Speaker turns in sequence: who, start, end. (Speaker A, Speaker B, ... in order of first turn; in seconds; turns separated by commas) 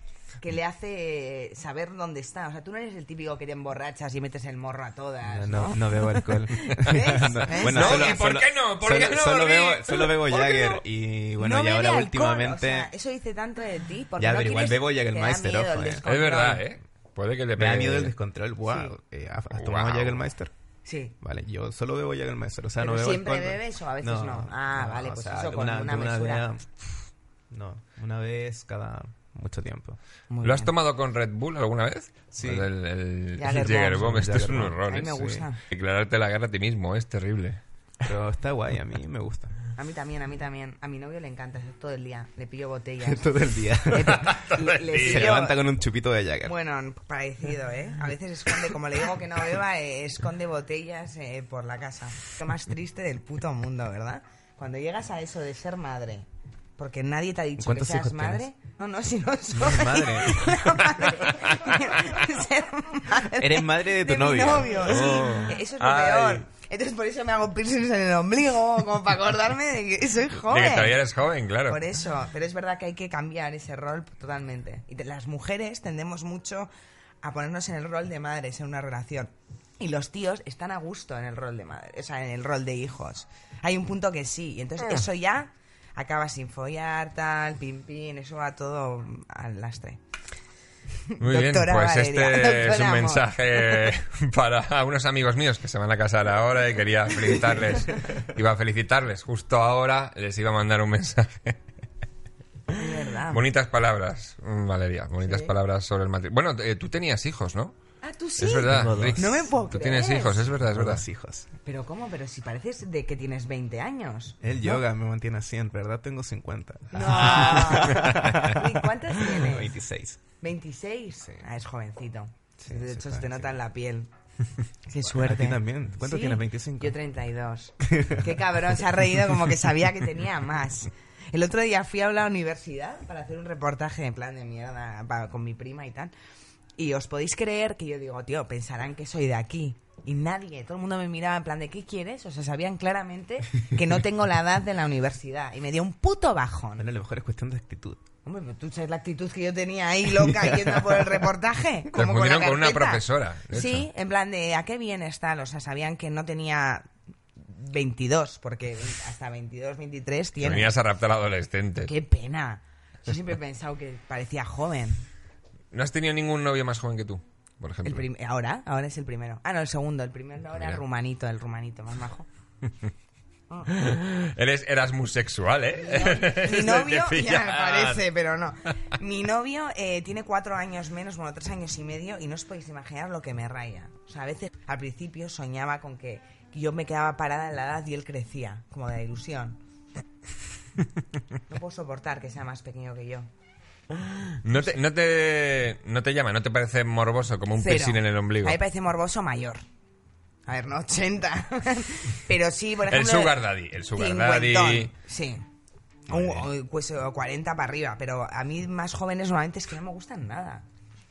Speaker A: 0.4-8.2, Speaker B: 5.2-12.9, Speaker C: 7.0-10.0, Speaker A: 9.9-10.8, Speaker A: 11.4-16.6, Speaker B: 14.2-16.6, Speaker C: 16.0-18.1, Speaker B: 17.6-20.5, Speaker A: 18.6-18.9, Speaker C: 19.5-20.2, Speaker A: 20.8-21.1, Speaker B: 21.2-30.0, Speaker A: 22.8-26.5, Speaker A: 30.3-30.7, Speaker C: 30.4-37.6, Speaker B: 32.3-32.7, Speaker A: 33.4-34.3, Speaker B: 33.5-35.5, Speaker A: 34.8-35.6, Speaker B: 38.0-39.5, Speaker A: 39.8-43.3, Speaker B: 43.0-44.3, Speaker A: 43.9-45.6, Speaker C: 44.0-45.3, Speaker B: 45.0-46.5, Speaker A: 46.4-56.2, Speaker A: 56.8-71.0, Speaker B: 57.6-58.4, Speaker B: 59.5-60.8, Speaker C: 61.3-62.2, Speaker B: 63.4-65.5, Speaker C: 65.8-66.5, Speaker C: 70.4-71.8, Speaker A: 71.7-76.7, Speaker A: 77.2-90.0, Speaker A: 91.1-93.9, Speaker C: 91.2-101.6, Speaker A: 102.7-103.4, Speaker C: 103.3-107.7, Speaker A: 105.2-105.5, Speaker A: 108.0-110.5, Speaker C: 108.4-111.0, Speaker B: 108.6-109.4, Speaker B: 110.6-111.5, Speaker A: 111.6-114.8, Speaker B: 114.4-120.2, Speaker A: 116.9-119.8, Speaker A: 120.4-124.1, Speaker B: 122.6-123.6, Speaker A: 124.9-136.1, Speaker B: 125.0-126.9, Speaker B: 127.9-128.3, Speaker A: 136.8-146.8, Speaker B: 146.8-148.0, Speaker A: 148.2-160.8, Speaker B: 150.4-150.9, Speaker C: 151.9-153.9, Speaker C: 160.4-161.9, Speaker A: 161.8-165.0, Speaker C: 165.7-168.1, Speaker A: 167.8-172.3, Speaker C: 170.5-170.8, Speaker C: 173.7-178.1, Speaker A: 175.8-189.6, Speaker A: 191.5-193.3, Speaker C: 194.2-198.6, Speaker A: 197.6-199.6, Speaker A: 200.4-203.4, Speaker C: 202.9-204.9, Speaker A: 203.9-205.4, Speaker C: 206.1-206.5, Speaker A: 206.1-210.6